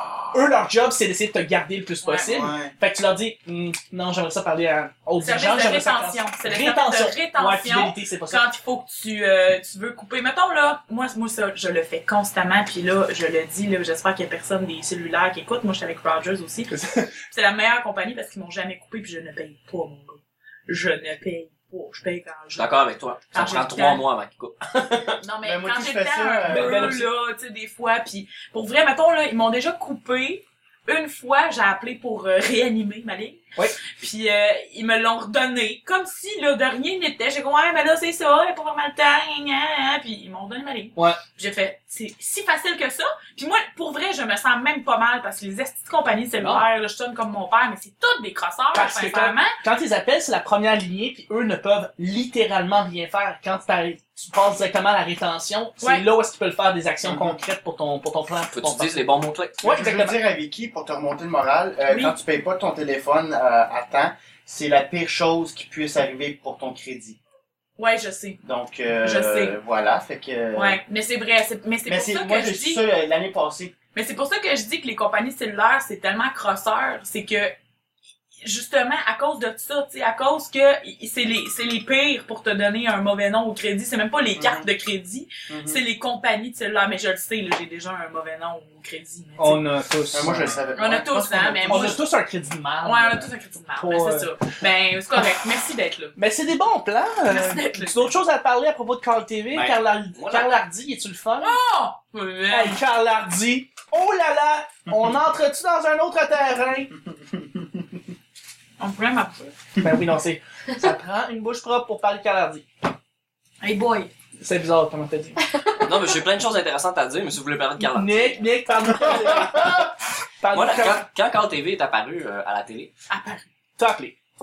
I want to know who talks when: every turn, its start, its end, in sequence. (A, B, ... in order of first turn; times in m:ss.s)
0:00.3-0:08.5 A
0:02.0-0:02.3 B
0:02.2-0:02.7 C
0:05.2-0:16.7 B
0:16.7-0:17.1 A
0:17.3-0:22.8 B
0:22.6-0:25.2 D
0:23.3-0:24.0 B
0:25.2-0:49.6 B
0:25.4-0:27.0 C
0:26.4-0:27.1 A
0:46.4-0:46.7 A
0:48.7-0:59.0 A
0:55.8-0:56.1 B
0:57.0-0:57.4 C
0:58.5-0:59.6 D
0:59.6-1:00.2 A
0:59.6-1:07.2 C
1:01.9-1:02.2 B
1:07.8-1:08.4 B
1:08.4-1:10.8 C
1:09.0-1:09.6 B
1:10.6-1:12.8 B
1:11.9-1:13.8 C
1:13.9-1:17.5 B
1:18.4-1:29.6 B
1:24.4-1:24.7 C
1:25.5-1:25.8 C
1:29.4-1:30.5 A
1:30.1-1:32.0 C
1:30.7-1:32.0 B
1:31.7-1:34.3 A
1:32.8-1:36.2 B
1:36.2-1:41.6 A
1:37.3-1:38.1 B
1:39.5-1:40.5 D
1:41.4-1:42.8 B
1:42.5-1:46.9 A
1:47.3-1:47.7 C
1:48.8-1:49.5 B
1:49.8-1:52.7 A
1:53.6-1:54.1 B
1:54.4-1:55.4 A
1:55.8-1:58.5 D
1:57.9-2:01.0 A
2:00.5-2:02.9 D
2:03.1-2:03.4 B
2:03.8-2:04.2 A